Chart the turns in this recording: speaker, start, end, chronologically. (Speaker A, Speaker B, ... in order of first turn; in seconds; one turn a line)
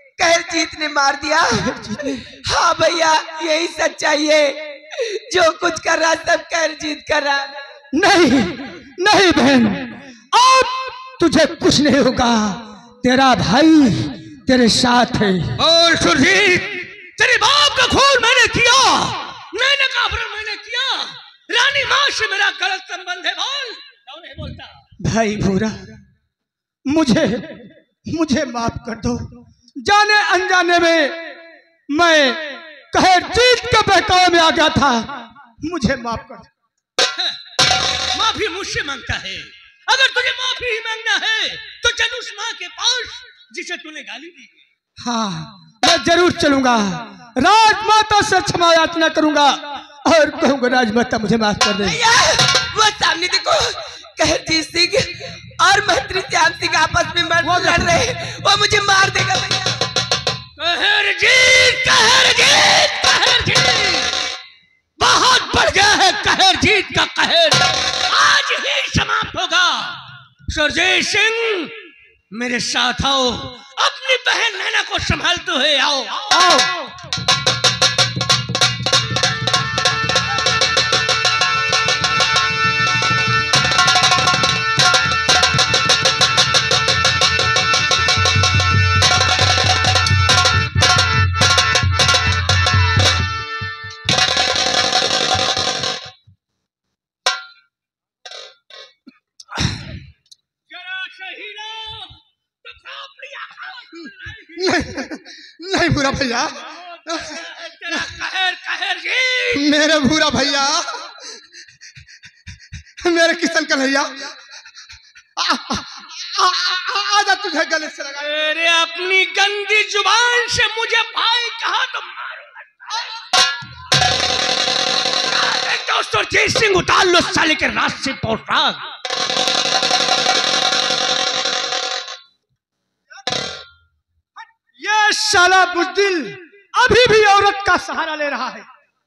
Speaker A: 0.2-1.5
Speaker B: 1.6-2.2
Speaker A: 2.5-7.6
Speaker B: 7.9-15.6
Speaker C: 15.6-24.8
Speaker B: 25.0-26.0
Speaker B: 26.9-31.3
Speaker B: 31.9-36.5
Speaker C: 38.1-44.5
Speaker B: 45.0-52.0
Speaker A: 51.9-59.8
Speaker B: 57.4-58.0
Speaker C: 60.6-64.2
Speaker C: 65.0-71.7
Speaker C: 72.3-76.4
Speaker B: 76.3-76.7
Speaker C: 100.7-104.8
Speaker D: 104.6-106.5
Speaker C: 106.7-109.8
Speaker D: 109.5-111.2
Speaker D: 113.0-114.3
Speaker D: 115.4-118.3
Speaker C: 118.2-123.1
Speaker C: 125.3-128.9
Speaker B: 134.8-138.7